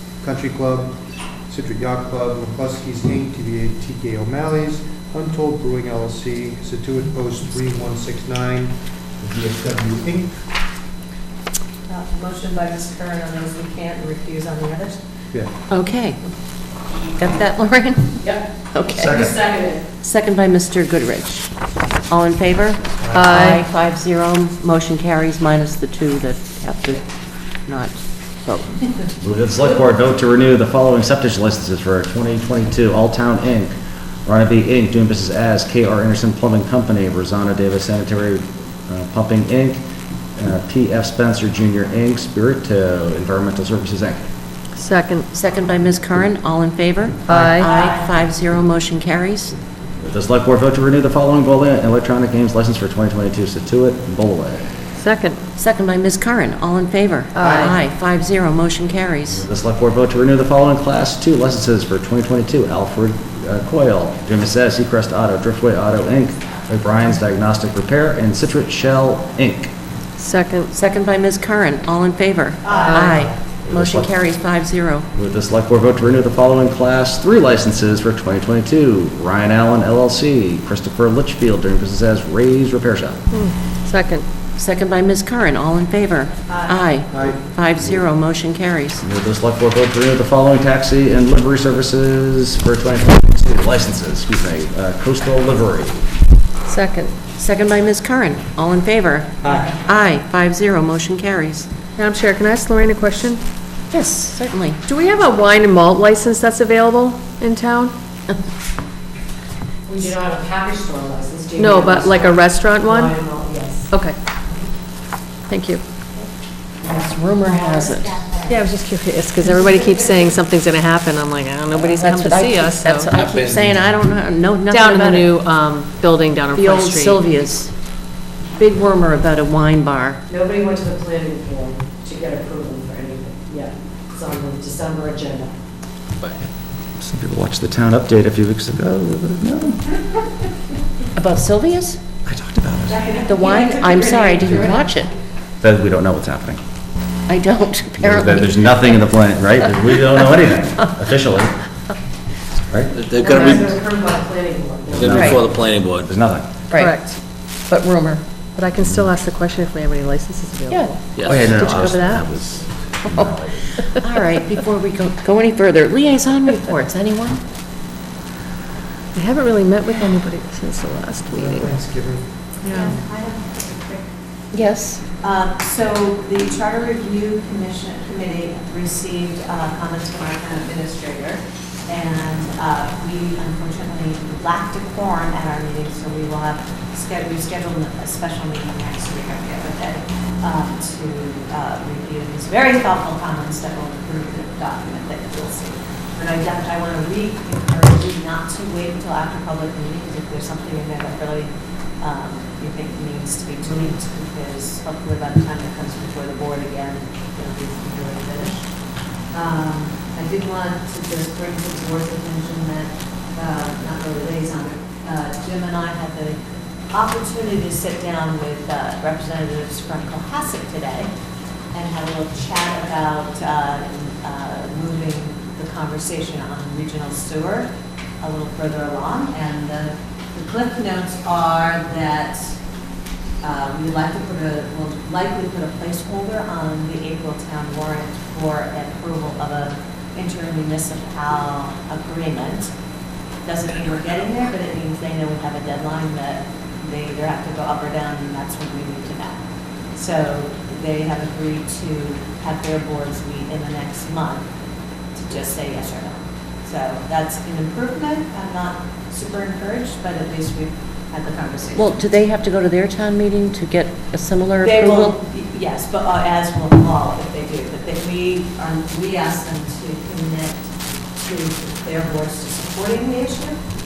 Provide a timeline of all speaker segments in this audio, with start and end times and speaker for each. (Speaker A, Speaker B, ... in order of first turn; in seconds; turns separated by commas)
Speaker A: 0.2-0.9, Speaker A: 1.5-10.3, Speaker B: 11.9-15.0, Speaker C: 15.7-16.2, Speaker C: 17.2-19.1, Speaker D: 18.9-19.4, Speaker E: 19.2-19.8, Speaker C: 20.0-21.5, Speaker C: 22.1-27.0, Speaker A: 23.0-23.6, Speaker F: 23.1-23.6, Speaker C: 27.7-28.8, Speaker D: 29.2-33.7, Speaker D: 34.2-39.8, Speaker D: 40.4-44.2, Speaker F: 44.8-45.2, Speaker C: 45.3-49.5, Speaker F: 47.2-47.7, Speaker A: 47.3-47.6, Speaker D: 50.0-54.7, Speaker F: 55.0-55.4, Speaker C: 55.6-59.4, Speaker F: 57.3-57.8, Speaker D: 59.4-69.7, Speaker F: 70.2-70.7, Speaker C: 70.7-75.1, Speaker B: 72.6-73.3, Speaker F: 72.9-73.1, Speaker D: 73.6-74.1, Speaker D: 75.1-83.2, Speaker F: 83.3-84.2, Speaker C: 84.6-89.0, Speaker B: 86.5-87.0, Speaker A: 87.1-87.4, Speaker D: 89.0-96.0, Speaker F: 96.7-97.1, Speaker C: 97.3-101.7, Speaker A: 99.4-99.7, Speaker F: 102.0-103.4, Speaker C: 103.9-104.8, Speaker F: 104.8-107.9, Speaker E: 109.9-113.9, Speaker F: 111.6-113.1, Speaker F: 115.5-115.8, Speaker C: 116.8-118.4, Speaker F: 118.5-123.1, Speaker E: 119.8-120.3, Speaker C: 121.8-125.4, Speaker G: 123.1-123.8, Speaker F: 124.7-127.3, Speaker C: 126.5-127.7, Speaker C: 128.6-130.2, Speaker E: 130.3-135.5, Speaker D: 137.0-139.9, Speaker C: 141.2-142.0, Speaker D: 142.2-143.0, Speaker B: 142.9-145.1, Speaker C: 143.2-145.1, Speaker D: 145.6-146.6, Speaker C: 147.3-148.9, Speaker D: 148.0-151.6, Speaker D: 152.7-153.0, Speaker G: 152.9-153.7, Speaker E: 153.2-155.0, Speaker C: 153.3-153.6, Speaker G: 154.9-156.1, Speaker D: 154.9-156.5, Speaker C: 155.1-155.4, Speaker C: 156.7-156.9, Speaker F: 156.7-157.2, Speaker C: 157.7-158.2, Speaker F: 158.5-162.2, Speaker D: 158.8-159.1, Speaker C: 160.7-160.9, Speaker G: 161.2-162.5, Speaker D: 161.2-163.6, Speaker C: 163.8-167.4, Speaker F: 169.1-171.7, Speaker A: 171.3-173.0, Speaker B: 172.6-174.1, Speaker F: 172.7-172.9, Speaker C: 174.5-175.0, Speaker B: 175.2-208.7, Speaker B: 209.3-216.4, Speaker B: 216.9-221.1, Speaker B: 221.7-227.7, Speaker B: 228.2-232.6, Speaker B: 233.4-242.7, Speaker B: 243.4-249.4, Speaker B: 249.9-254.5, Speaker B: 255.1-262.2, Speaker C: 261.8-265.1, Speaker B: 264.6-273.6